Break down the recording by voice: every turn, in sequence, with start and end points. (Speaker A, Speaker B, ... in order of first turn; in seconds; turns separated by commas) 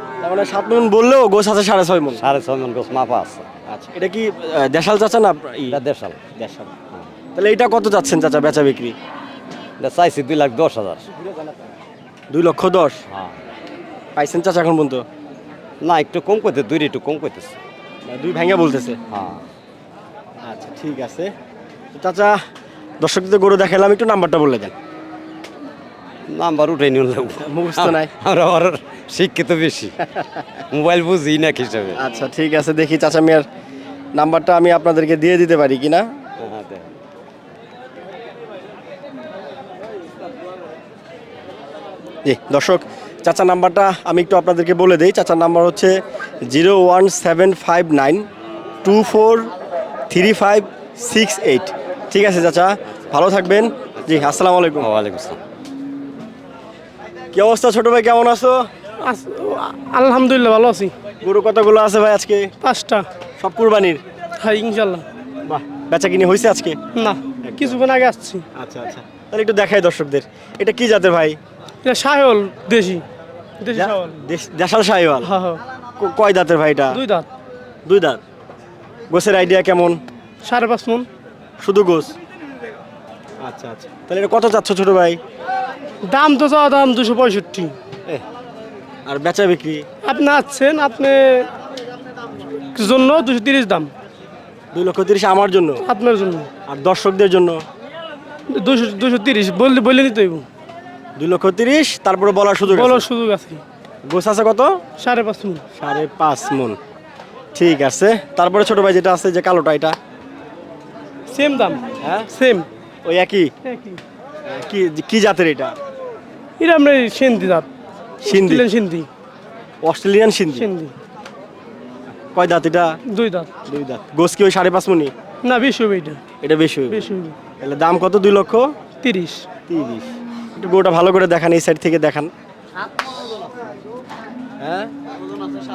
Speaker A: 0.2-2.2, Speaker B: 2.1-3.5, Speaker A: 3.7-5.8, Speaker B: 5.7-6.2, Speaker A: 6.3-6.7, Speaker A: 7.3-8.9, Speaker B: 9.8-11.1, Speaker A: 12.3-13.0, Speaker B: 13.1-13.3, Speaker A: 14.2-15.0, Speaker B: 15.8-17.6, Speaker A: 18.1-19.0, Speaker B: 19.1-19.4, Speaker A: 20.4-21.3, Speaker A: 21.9-22.4, Speaker A: 23.0-24.7, Speaker B: 26.3-29.9, Speaker A: 27.4-28.1, Speaker A: 30.0-30.6, Speaker B: 30.7-32.0, Speaker A: 31.9-33.5, Speaker A: 34.1-36.0, Speaker B: 36.4-36.9, Speaker A: 42.2-48.2, Speaker A: 48.8-49.5, Speaker A: 50.1-54.9, Speaker B: 54.8-55.4, Speaker A: 57.3-58.7, Speaker C: 59.0-60.9, Speaker A: 61.2-62.5, Speaker C: 62.6-63.0, Speaker A: 63.4-64.0, Speaker C: 64.4-65.0, Speaker A: 65.5-66.8, Speaker C: 67.0-68.4, Speaker A: 67.4-67.8, Speaker A: 68.5-71.4, Speaker C: 71.8-73.0, Speaker C: 73.6-74.2, Speaker A: 73.7-75.3, Speaker C: 75.2-75.6, Speaker A: 76.0-77.0, Speaker C: 76.9-77.3, Speaker A: 77.8-78.2, Speaker A: 79.1-80.0, Speaker C: 80.4-81.1, Speaker A: 81.6-82.1, Speaker A: 83.4-85.2, Speaker C: 86.1-87.7, Speaker A: 89.0-89.8, Speaker C: 90.0-91.5, Speaker C: 92.7-93.9, Speaker A: 94.7-95.8, Speaker C: 95.8-96.5, Speaker A: 96.7-97.6, Speaker C: 98.5-100.5, Speaker A: 101.2-103.0, Speaker C: 102.7-103.6, Speaker A: 104.0-104.7, Speaker C: 105.0-105.6, Speaker A: 105.8-106.8, Speaker A: 107.5-110.0, Speaker C: 111.3-111.8, Speaker A: 112.0-112.3, Speaker C: 112.3-112.7, Speaker A: 113.0-113.5, Speaker C: 113.6-114.0, Speaker A: 114.5-115.7, Speaker C: 116.6-117.7, Speaker A: 118.2-118.7, Speaker C: 118.2-119.1, Speaker A: 119.8-120.7, Speaker C: 120.5-120.9, Speaker A: 122.3-122.9, Speaker C: 123.1-123.5, Speaker A: 123.7-125.1, Speaker C: 125.4-126.2, Speaker A: 126.4-127.1, Speaker C: 126.9-127.4, Speaker A: 127.6-128.7, Speaker C: 129.0-129.4, Speaker A: 129.7-132.3, Speaker A: 134.6-134.9